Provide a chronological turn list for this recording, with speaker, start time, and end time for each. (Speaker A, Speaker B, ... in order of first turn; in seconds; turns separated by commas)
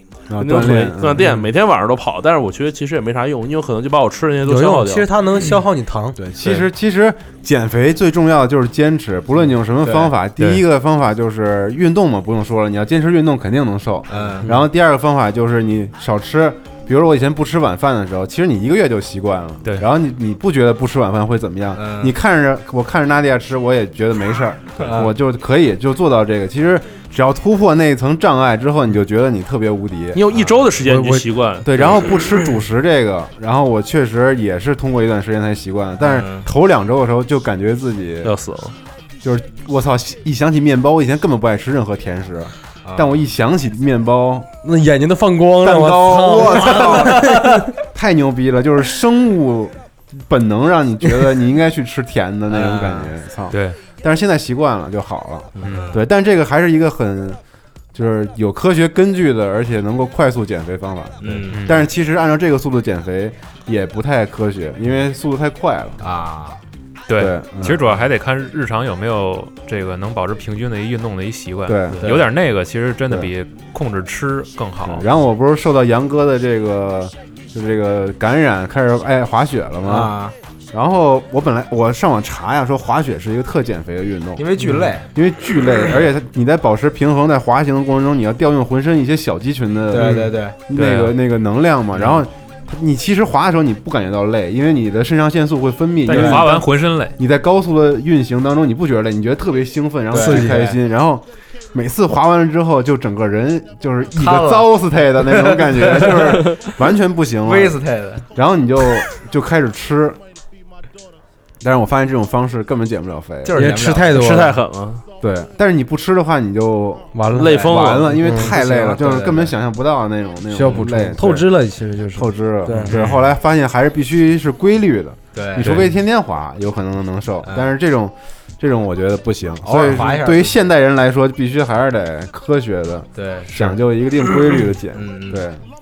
Speaker A: 0.3-1.4, Speaker B: 0.4-5.1, Speaker C: 4.4-6.2, Speaker A: 6.2-30.2, Speaker D: 6.3-6.6, Speaker D: 9.8-10.1, Speaker D: 14.1-14.5, Speaker D: 21.8-22.1, Speaker D: 24.8-25.1, Speaker B: 30.1-32.3, Speaker A: 31.6-38.3, Speaker D: 36.0-36.5, Speaker B: 38.2-38.8, Speaker A: 39.2-44.5, Speaker D: 42.8-43.1, Speaker C: 44.6-47.6, Speaker A: 45.6-57.4, Speaker D: 46.4-47.2, Speaker D: 52.5-53.1, Speaker E: 53.5-53.8, Speaker D: 55.6-56.0, Speaker E: 55.6-55.9, Speaker A: 57.9-66.0, Speaker D: 61.2-61.8, Speaker E: 61.5-61.8, Speaker D: 66.0-66.6, Speaker E: 67.1-75.0, Speaker A: 67.2-67.9, Speaker A: 71.7-72.1, Speaker D: 72.0-72.3, Speaker A: 74.8-80.1, Speaker D: 79.8-80.3, Speaker A: 80.7-84.5, Speaker D: 84.4-85.0, Speaker A: 85.1-96.6, Speaker D: 89.9-90.6, Speaker C: 90.0-90.3, Speaker E: 90.7-91.1, Speaker D: 91.9-92.2, Speaker E: 96.0-97.2, Speaker D: 96.1-96.6, Speaker A: 97.2-107.8, Speaker D: 100.1-100.8, Speaker C: 100.2-100.6, Speaker D: 104.1-104.7, Speaker D: 105.2-106.7, Speaker D: 107.4-108.2, Speaker A: 108.3-110.2, Speaker A: 111.6-113.6, Speaker D: 113.4-114.3, Speaker C: 113.5-114.6, Speaker B: 114.1-115.0, Speaker A: 115.2-121.5, Speaker C: 117.1-119.0, Speaker B: 117.3-118.2, Speaker D: 118.3-119.5, Speaker C: 120.5-122.9, Speaker A: 122.1-135.6, Speaker B: 122.9-123.3, Speaker D: 125.3-125.8, Speaker D: 129.6-130.6, Speaker D: 133.2-133.7, Speaker D: 134.9-135.4